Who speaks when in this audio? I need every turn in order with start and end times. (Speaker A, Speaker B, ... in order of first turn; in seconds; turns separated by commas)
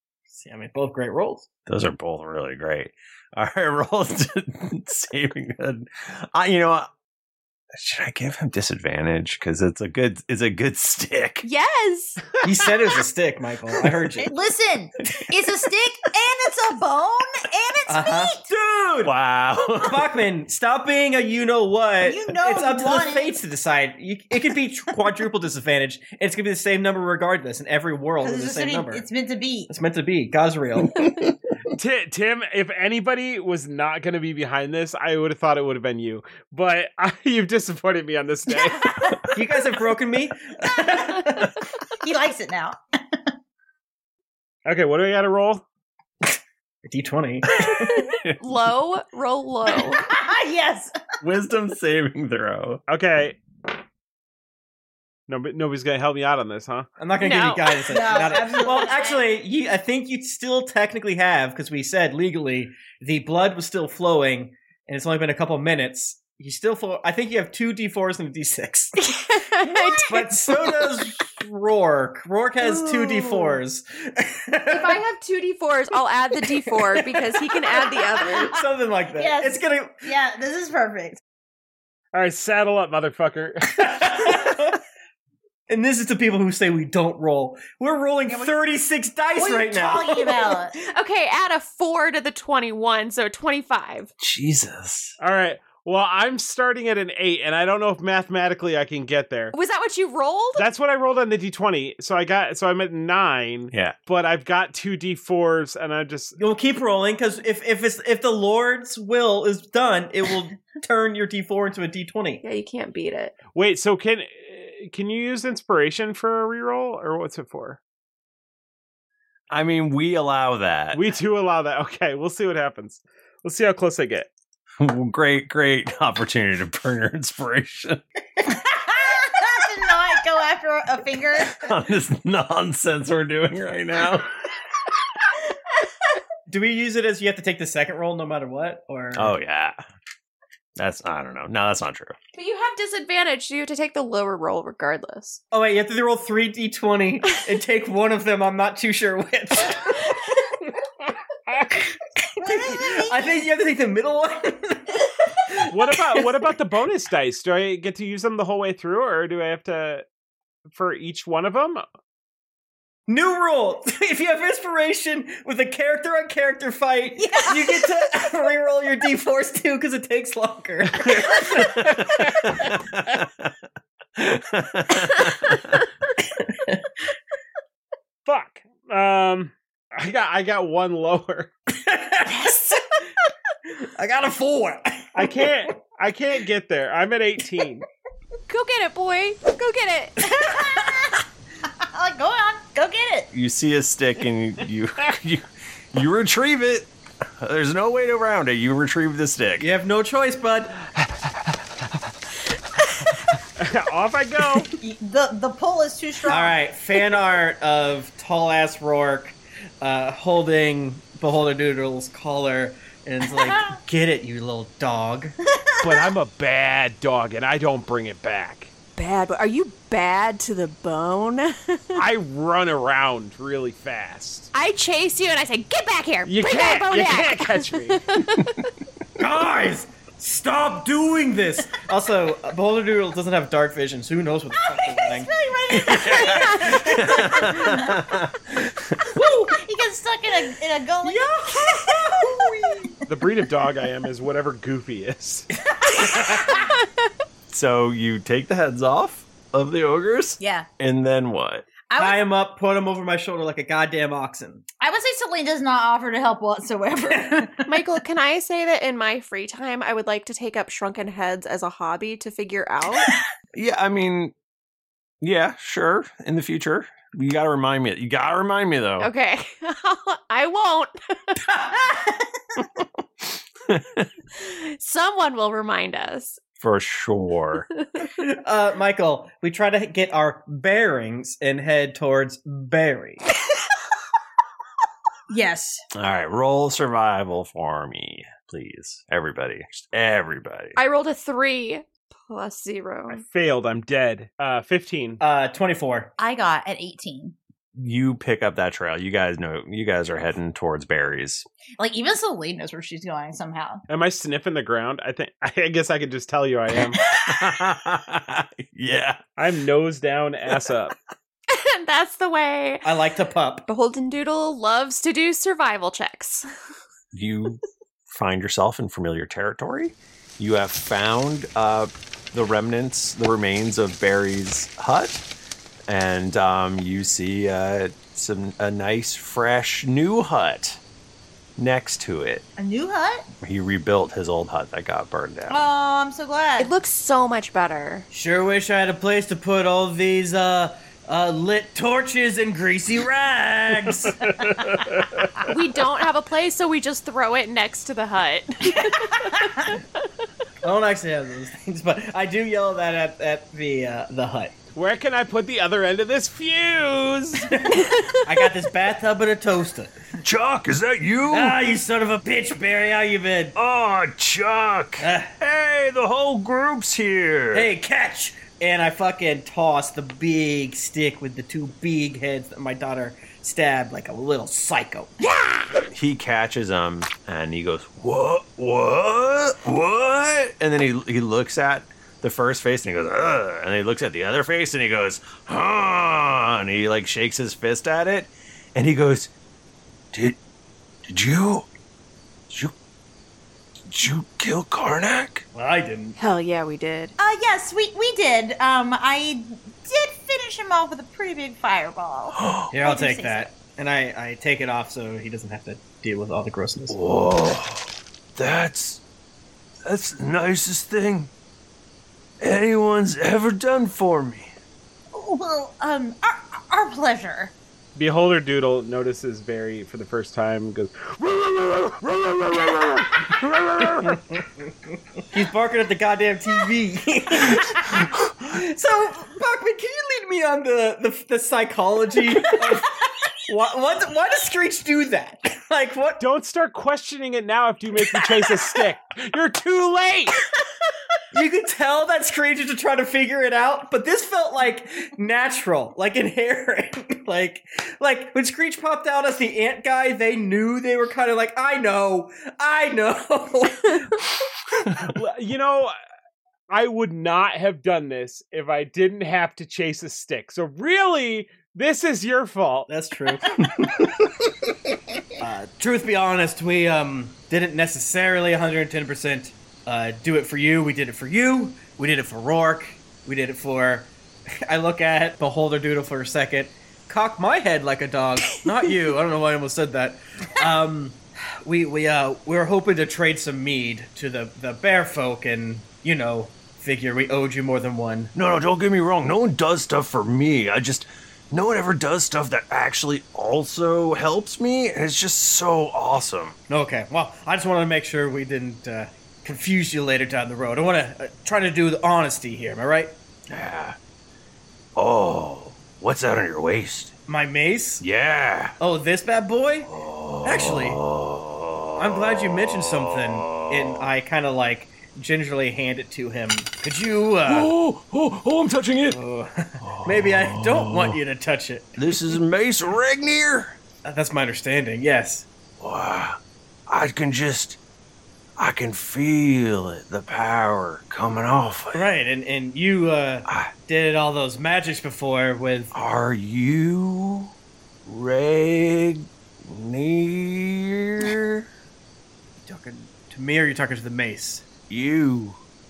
Speaker A: 0.3-1.5, Speaker B: 1.7-6.9, Speaker B: 7.7-11.5, Speaker C: 11.4-12.2, Speaker A: 12.4-14.3, Speaker D: 14.2-18.5, Speaker A: 17.9-19.1, Speaker B: 19.0-20.1, Speaker A: 19.8-29.1, Speaker D: 22.0-23.3, Speaker D: 28.2-29.7, Speaker A: 29.7-31.1, Speaker E: 31.8-39.0, Speaker A: 39.4-41.5, Speaker D: 42.0-42.8, Speaker E: 44.7-45.6, Speaker A: 46.9-47.9, Speaker B: 47.6-48.4, Speaker C: 48.4-50.1, Speaker D: 50.0-50.9, Speaker B: 51.2-52.8, Speaker E: 52.9-53.4, Speaker E: 55.3-56.9, Speaker A: 57.0-69.0, Speaker C: 57.2-58.3, Speaker D: 57.9-59.3, Speaker C: 69.0-70.9, Speaker A: 70.0-75.0, Speaker C: 72.9-73.5, Speaker C: 74.7-78.5, Speaker A: 78.2-80.1, Speaker D: 79.1-81.2, Speaker E: 82.1-83.8, Speaker A: 83.8-84.8, Speaker A: 85.7-90.5, Speaker D: 88.3-88.5, Speaker D: 89.4-90.8, Speaker C: 90.8-94.1, Speaker B: 94.2-95.2, Speaker E: 95.2-99.5, Speaker C: 99.5-100.7, Speaker E: 100.6-106.4, Speaker A: 106.4-112.4, Speaker C: 112.4-113.4, Speaker E: 113.5-117.8, Speaker B: 119.5-121.1, Speaker E: 120.9-124.3, Speaker B: 124.8-128.0, Speaker D: 128.4-131.7, Speaker B: 131.5-134.3, Speaker A: 136.5-139.3, Speaker B: 139.1-139.8, Speaker B: 140.8-142.2, Speaker C: 142.3-145.4, Speaker A: 145.5-150.1, Speaker D: 152.4-153.3, Speaker A: 152.4-155.0, Speaker E: 155.7-160.0, Speaker E: 160.7-161.8, Speaker A: 163.1-171.7, Speaker D: 167.2-167.9, Speaker B: 172.4-173.5, Speaker B: 174.2-175.8, Speaker E: 178.3-181.5, Speaker A: 181.8-182.8, Speaker A: 183.8-185.5, Speaker E: 185.1-187.8, Speaker C: 188.5-190.2, Speaker D: 190.2-191.2, Speaker D: 191.9-193.3, Speaker B: 193.3-196.9, Speaker B: 197.4-199.7, Speaker A: 199.6-200.8, Speaker E: 203.6-204.7, Speaker D: 204.8-206.6, Speaker A: 206.3-215.3, Speaker D: 213.3-213.8, Speaker E: 215.8-218.7, Speaker C: 219.0-222.0, Speaker E: 222.0-224.5, Speaker C: 224.5-228.6, Speaker E: 226.2-228.0, Speaker A: 229.2-237.5, Speaker D: 234.7-237.9, Speaker B: 235.8-239.0, Speaker A: 239.2-239.6, Speaker D: 239.5-241.3, Speaker A: 241.0-242.9, Speaker E: 243.1-245.4, Speaker B: 247.5-251.7, Speaker D: 250.4-250.7, Speaker D: 251.9-252.2, Speaker A: 252.0-254.6, Speaker D: 254.8-257.7, Speaker C: 257.7-263.1, Speaker B: 263.5-264.3, Speaker B: 265.2-269.1, Speaker C: 269.0-271.4, Speaker B: 273.7-274.1, Speaker C: 274.4-276.4, Speaker B: 276.6-277.7, Speaker A: 278.2-283.2, Speaker D: 285.3-285.8, Speaker B: 285.9-290.8, Speaker C: 290.8-293.2, Speaker E: 293.1-295.2, Speaker A: 295.2-296.1, Speaker D: 296.2-297.4, Speaker B: 297.8-301.4, Speaker D: 301.8-303.8, Speaker E: 303.9-307.0, Speaker B: 307.3-309.2, Speaker E: 309.4-310.9, Speaker C: 311.5-312.9, Speaker A: 312.8-313.7, Speaker C: 313.7-316.5, Speaker B: 317.1-325.2, Speaker B: 325.9-330.8, Speaker B: 331.6-332.4, Speaker D: 332.6-333.2, Speaker B: 333.4-335.6, Speaker D: 335.5-336.7, Speaker C: 336.6-338.1, Speaker A: 338.1-344.3, Speaker C: 345.4-349.3, Speaker A: 350.6-354.6, Speaker E: 354.7-357.5, Speaker A: 357.6-359.9, Speaker B: 360.2-361.6, Speaker A: 361.3-363.6, Speaker B: 363.6-367.7, Speaker A: 365.0-365.3, Speaker A: 367.5-375.1, Speaker B: 375.9-389.3, Speaker B: 391.1-391.7, Speaker B: 393.9-395.4, Speaker A: 395.5-396.2, Speaker C: 396.2-397.1, Speaker D: 397.2-403.5, Speaker B: 402.4-402.7, Speaker A: 402.7-407.0, Speaker B: 406.9-409.0, Speaker B: 409.9-411.3, Speaker B: 412.4-414.5, Speaker D: 415.1-417.5, Speaker E: 418.0-423.0, Speaker A: 425.3-432.9, Speaker A: 433.5-436.2, Speaker E: 436.2-440.4, Speaker A: 441.3-454.1, Speaker E: 455.1-455.9, Speaker E: 456.7-462.9, Speaker A: 462.9-464.1, Speaker A: 465.4-474.1, Speaker A: 474.7-488.3, Speaker B: 488.4-496.6, Speaker A: 496.7-503.1, Speaker B: 503.5-504.0, Speaker B: 505.0-507.1, Speaker A: 507.3-508.0, Speaker B: 508.0-508.8, Speaker A: 508.8-509.9, Speaker B: 509.9-514.1, Speaker A: 510.4-511.0, Speaker A: 512.0-517.7, Speaker B: 517.5-519.2, Speaker A: 519.1-522.4, Speaker B: 519.8-521.2, Speaker B: 522.0-523.8, Speaker A: 524.0-525.5, Speaker B: 525.8-527.8, Speaker B: 528.6-532.1, Speaker A: 531.9-535.9, Speaker B: 535.9-537.5, Speaker B: 538.1-541.7, Speaker A: 542.6-544.6, Speaker B: 544.9-545.6